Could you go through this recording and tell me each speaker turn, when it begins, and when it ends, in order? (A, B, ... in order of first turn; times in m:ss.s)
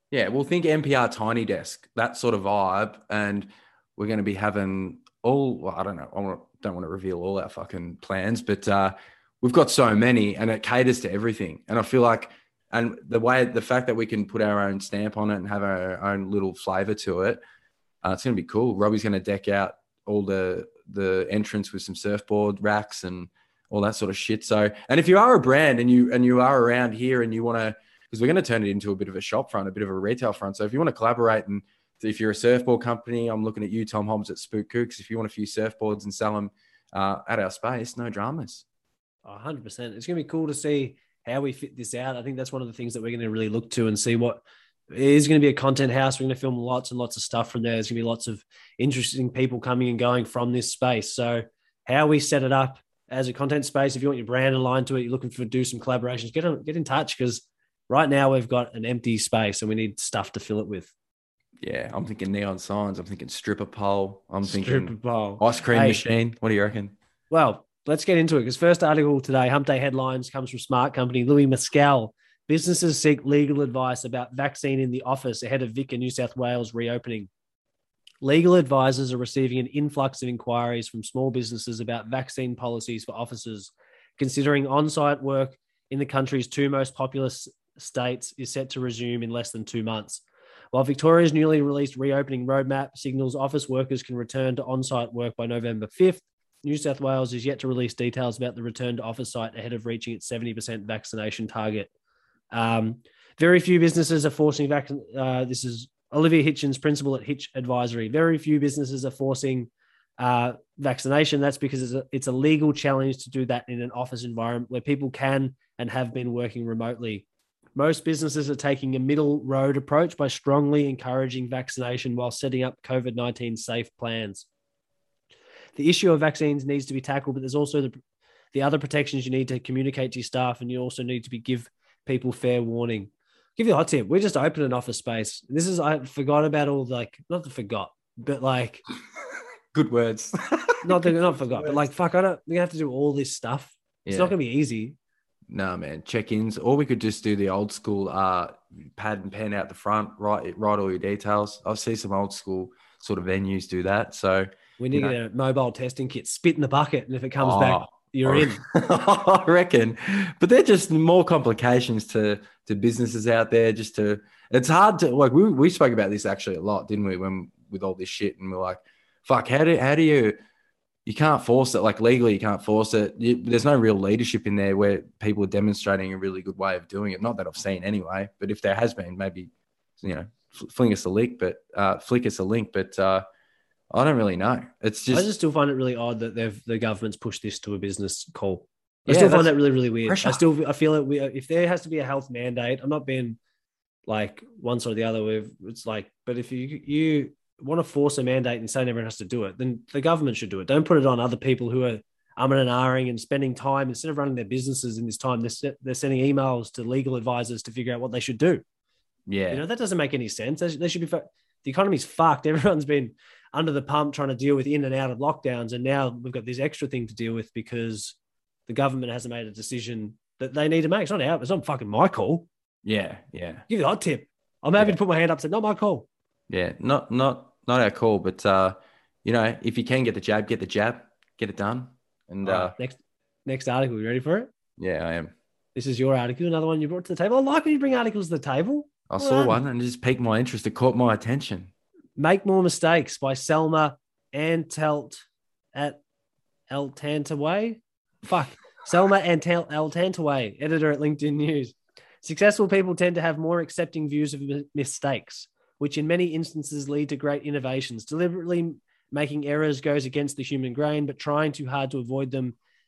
0:00.1-0:17.4 A
0:18.0-0:38.6 A
0:39.2-1:00.9 B
1:01.6-1:06.9 A
1:04.4-1:06.0 B
1:07.3-1:17.3 B
1:18.2-1:41.9 B
1:42.5-2:04.5 B
2:05.8-2:07.9 B
2:08.5-2:18.8 B
2:19.7-2:21.9 A
2:20.8-2:25.0 B
2:24.1-2:24.4 A
2:25.5-2:35.2 A
2:34.8-2:38.6 B
2:37.4-2:50.4 A
2:51.1-3:03.2 A
3:03.9-3:05.3 A
3:05.1-3:13.4 B
3:09.1-3:10.4 A
3:14.1-3:28.6 B
3:29.3-3:29.6 A
3:29.5-3:42.5 B
3:42.8-3:43.7 A
3:43.7-3:46.1 B
3:46.5-3:52.8 A
3:52.4-3:54.5 B
3:54.8-3:55.3 A
3:55.8-3:59.6 B
3:59.1-4:01.7 A
4:02.2-4:06.0 B
4:06.7-4:22.6 B